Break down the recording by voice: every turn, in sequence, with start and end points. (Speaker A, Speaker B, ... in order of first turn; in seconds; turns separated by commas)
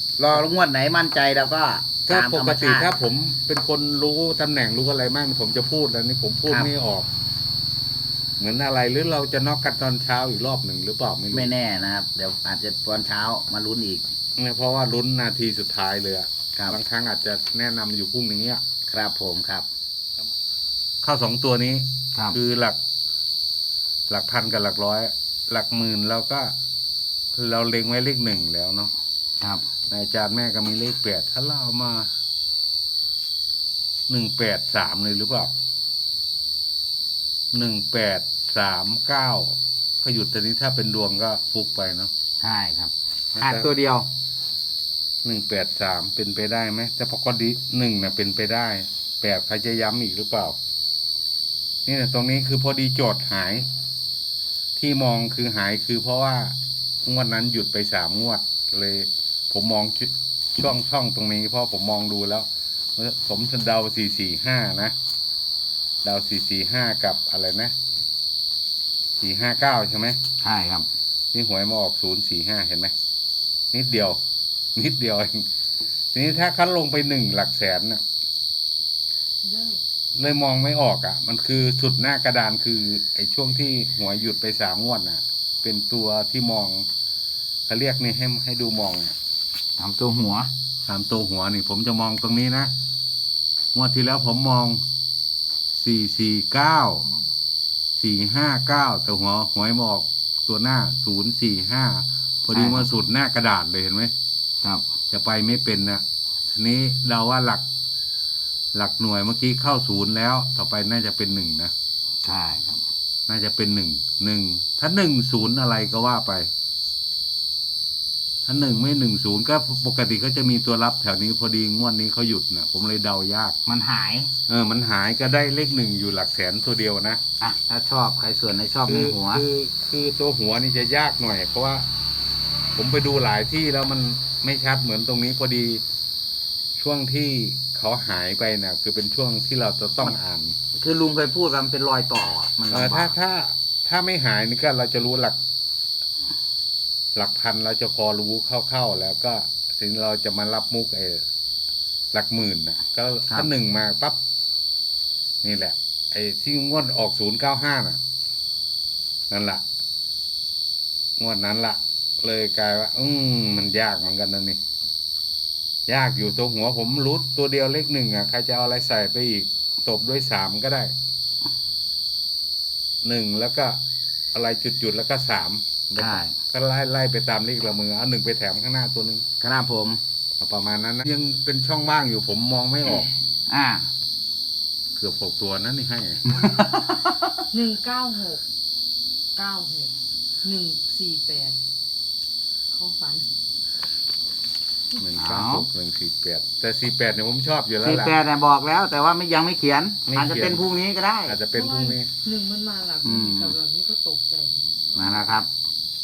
Speaker A: 0.2-2.9, Speaker B: 2.1-7.1, Speaker B: 8.4-11.5, Speaker A: 11.3-14.1, Speaker B: 14.4-18.6, Speaker A: 18.9-19.7, Speaker B: 21.0-22.8, Speaker B: 24.1-26.5, Speaker B: 27.3-28.9, Speaker B: 29.9-32.1, Speaker B: 34.1-35.5, Speaker B: 37.5-42.1, Speaker A: 42.4-44.1, Speaker B: 43.4-43.7, Speaker B: 45.2-50.6, Speaker B: 51.9-53.7, Speaker B: 54.8-65.0, Speaker B: 66.0-67.8, Speaker B: 69.2-70.2, Speaker A: 70.4-70.9, Speaker B: 71.3-72.9, Speaker B: 73.7-74.2, Speaker B: 74.8-75.5, Speaker B: 76.1-78.0, Speaker B: 80.2-86.9, Speaker B: 87.7-89.2, Speaker A: 89.8-90.5, Speaker B: 90.9-92.7, Speaker B: 93.7-94.8, Speaker B: 95.8-97.1, Speaker B: 98.0-104.1, Speaker A: 102.5-102.9, Speaker B: 105.1-107.6, Speaker B: 108.7-111.7, Speaker A: 112.2-112.8, Speaker B: 113.3-116.5, Speaker B: 118.5-123.6, Speaker A: 123.7-124.3, Speaker B: 124.5-127.2, Speaker A: 127.4-129.4, Speaker B: 128.9-131.9, Speaker B: 132.8-135.8, Speaker B: 136.8-140.6, Speaker A: 140.7-143.2, Speaker B: 142.7-145.4, Speaker B: 147.2-151.2, Speaker B: 152.1-154.2, Speaker B: 155.4-158.0, Speaker B: 159.3-159.6, Speaker B: 161.2-164.6, Speaker B: 165.9-170.9, Speaker B: 173.0-173.8, Speaker B: 174.3-179.2, Speaker A: 176.0-176.3, Speaker A: 179.4-180.0, Speaker B: 180.4-183.1, Speaker A: 182.9-183.9, Speaker B: 185.0-186.6, Speaker A: 186.3-187.1, Speaker C: 187.5-188.4, Speaker C: 189.3-191.6, Speaker C: 192.7-193.3, Speaker B: 195.0-198.2, Speaker A: 195.2-195.7, Speaker A: 197.8-201.4, Speaker B: 200.1-200.7, Speaker B: 201.3-202.1, Speaker C: 201.5-205.2, Speaker A: 203.0-203.6, Speaker A: 204.9-205.5